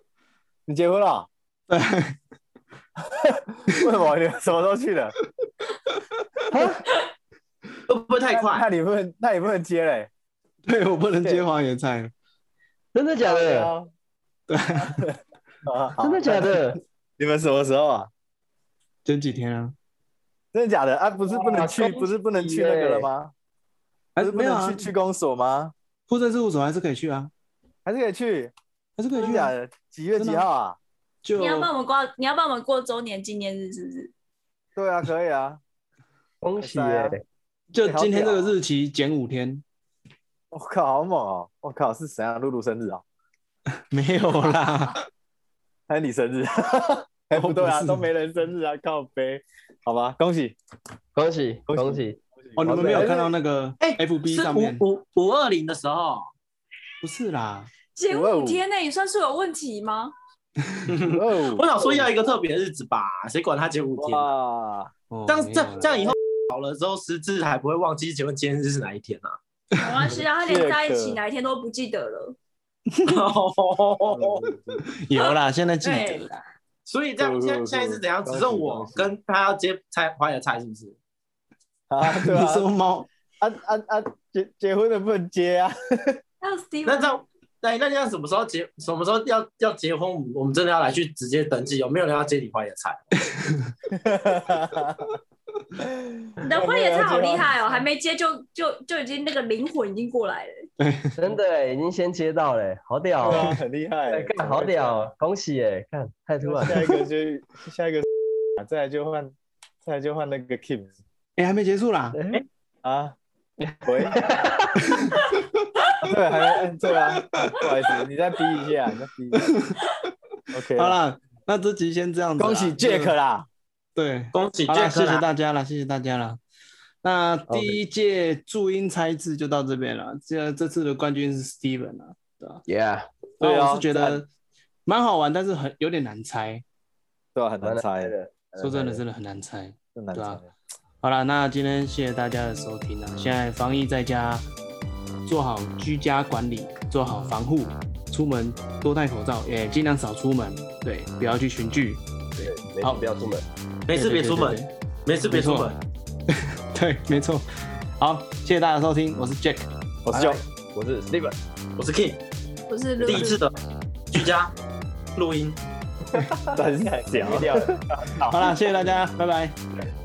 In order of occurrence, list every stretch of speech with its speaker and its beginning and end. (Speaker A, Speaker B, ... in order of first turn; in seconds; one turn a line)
Speaker A: 0.7-1.3
Speaker B: 1.7-2.2
Speaker A: 3.0-5.2
Speaker C: 6.5-6.9
Speaker D: 7.9-8.7
Speaker A: 8.3-10.1
Speaker B: 10.7-12.1
Speaker C: 12.9-13.7
Speaker A: 13.2-13.9
Speaker B: 14.5-15.0
Speaker A: 14.9-18.1
Speaker C: 16.0-16.8
Speaker B: 19.1-19.8
Speaker A: 20.5-23.3
Speaker C: 21.3-23.1
Speaker B: 24.1-24.9
Speaker A: 24.2-25.7
Speaker B: 26.1-27.3
Speaker A: 27.9-28.5
Speaker B: 29.0-29.5
Speaker A: 29.1-30.8
Speaker B: 30.2-30.5
Speaker B: 31.2-31.7
Speaker E: 31.4-34.1
Speaker A: 34.8-35.6
Speaker C: 36.4-37.2
Speaker A: 36.6-37.2
Speaker B: 37.7-39.6
Speaker A: 37.8-38.6
Speaker A: 40.5-43.0
Speaker B: 43.9-45.0
Speaker A: 45.9-50.6
Speaker B: 47.3-48.1
Speaker C: 51.1-53.1
Speaker A: 51.7-53.3
Speaker B: 52.6-54.8
Speaker D: 53.8-56.3
Speaker B: 57.0-57.7
Speaker E: 58.0-60.1
Speaker A: 58.1-58.6
Speaker D: 60.9-64.3
Speaker A: 61.1-62.0
Speaker A: 64.0-64.9
Speaker B: 65.1-66.1
Speaker D: 65.3-69.4
Speaker E: 69.8-72.4
Speaker A: 70.4-71.2
Speaker B: 72.9-73.2
Speaker D: 73.0-74.4
Speaker A: 74.1-74.9
Speaker B: 74.9-76.4
Speaker D: 75.8-76.2
Speaker D: 76.9-81.0
Speaker A: 77.2-79.1
Speaker A: 81.9-82.7
Speaker B: 82.0-83.1
Speaker A: 83.4-86.2
Speaker E: 86.4-87.2
Speaker D: 86.8-93.1
Speaker B: 93.3-93.7
Speaker A: 93.9-95.1
Speaker A: 95.8-97.8
Speaker E: 96.4-100.7
Speaker B: 100.8-101.1
Speaker C: 101.2-103.6
Speaker A: 103.2-105.1
Speaker C: 104.1-106.9
Speaker A: 106.4-110.9
Speaker B: 111.4-112.2
Speaker C: 112.1-112.4
Speaker A: 112.8-113.2
Speaker A: 113.8-114.3
Speaker A: 116.0-119.6
Speaker B: 119.3-120.1
Speaker A: 120.5-121.0
Speaker B: 120.8-123.1
Speaker A: 122.4-123.5
Speaker B: 124.0-126.4
Speaker D: 124.3-125.2
Speaker B: 127.0-132.6
Speaker C: 127.5-127.8
Speaker C: 132.7-133.1
Speaker B: 133.4-134.3
Speaker A: 133.4-134.2
Speaker B: 134.9-136.6
Speaker A: 137.3-138.1
Speaker C: 137.6-139.0
Speaker B: 138.6-140.4
Speaker A: 140.0-140.5
Speaker B: 141.0-144.4
Speaker B: 145.3-153.0
Speaker C: 152.4-153.4
Speaker D: 153.9-155.8
Speaker B: 153.9-154.7
Speaker B: 155.3-155.7
Speaker B: 156.3-157.5
Speaker B: 158.0-159.7
Speaker A: 160.1-160.4
Speaker C: 160.1-161.4
Speaker D: 161.8-162.2
Speaker E: 162.7-163.4
Speaker D: 163.0-163.5
Speaker D: 164.1-164.5
Speaker D: 165.2-165.6
Speaker C: 166.2-168.2
Speaker A: 166.5-168.4
Speaker B: 168.2-169.6